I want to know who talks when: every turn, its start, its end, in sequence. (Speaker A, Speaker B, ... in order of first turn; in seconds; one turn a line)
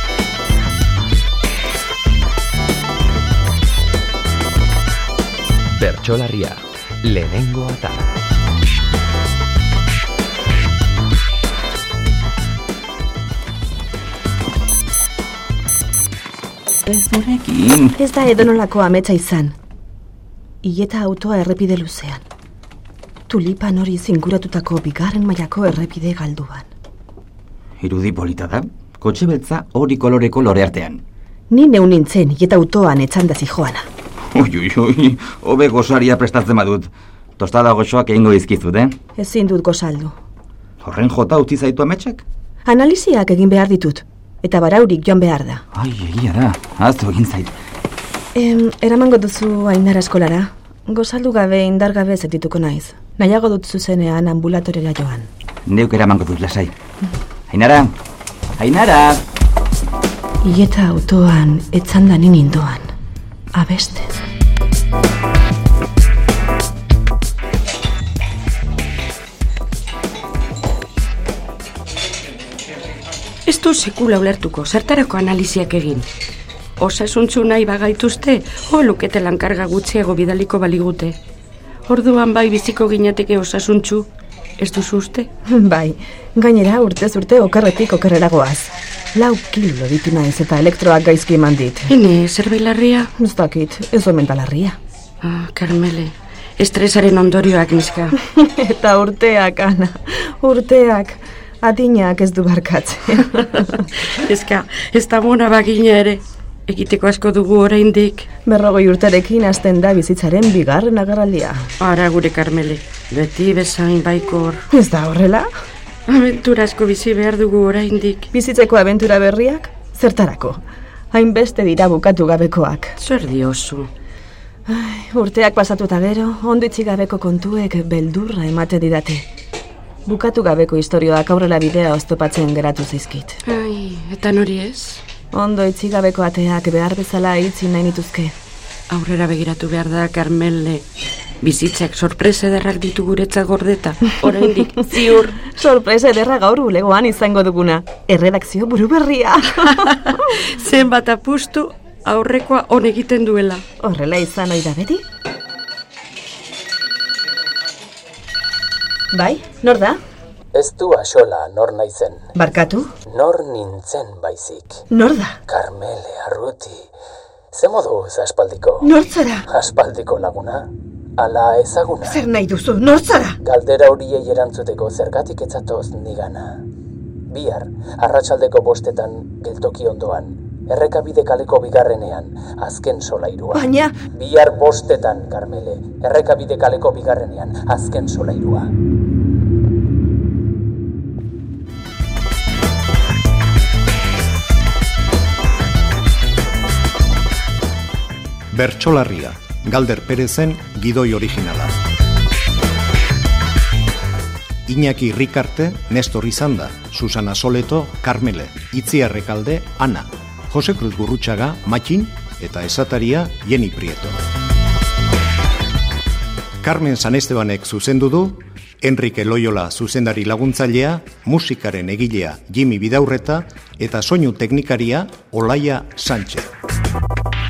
Speaker A: 5.7-8.1
Speaker B: 16.9-17.9
Speaker C: 17.9-19.6
Speaker C: 20.6-22.2
Speaker C: 23.3-26.7
Speaker B: 27.8-31.0
Speaker C: 31.5-33.9
Speaker B: 34.3-39.0
Speaker C: 39.2-40.2
Speaker B: 40.8-42.2
Speaker C: 42.6-45.6
Speaker B: 45.7-47.5
Speaker C: 48.4-55.3
Speaker B: 55.7-56.7
Speaker B: 57.5-57.9
Speaker B: 58.6-59.2
Speaker C: 60.4-62.9
Speaker C: 63.5-64.2
Speaker D: 73.5-76.1
Speaker D: 76.8-81.2
Speaker D: 81.9-84.1
Speaker D: 84.6-85.3
Speaker C: 85.5-91.9
Speaker D: 91.9-93.1
Speaker C: 93.2-94.8
Speaker D: 95.2-98.2
Speaker C: 98.2-103.8
Speaker D: 103.5-108.3
Speaker C: 108.5-111.7
Speaker D: 111.8-114.7
Speaker C: 114.7-115.5
Speaker D: 116.1-118.3
Speaker C: 118.3-123.0
Speaker D: 123.0-123.9
Speaker C: 124.7-129.3
Speaker C: 130.1-133.4
Speaker D: 133.4-135.0
Speaker C: 135.3-138.3
Speaker D: 138.9-140.8
Speaker D: 141.4-145.4
Speaker C: 145.4-150.4
Speaker D: 149.7-153.6
Speaker C: 153.8-155.0
Speaker C: 159.1-160.0
Speaker E: 160.5-162.3
Speaker C: 162.3-162.9
Speaker E: 163.1-164.8
Speaker C: 164.9-165.4
Speaker E: 165.5-166.9
Speaker E: 167.5-168.9
Speaker C: 168.8-169.5
Speaker E: 169.5-172.2
Speaker C: 172.1-173.4
Speaker E: 173.4-176.6
Speaker E: 177.3-188.7
Speaker C: 183.5-184.0
Speaker F: 198.5-201.8
Speaker F: 204.7-214.2
Speaker F: 216.6-226.5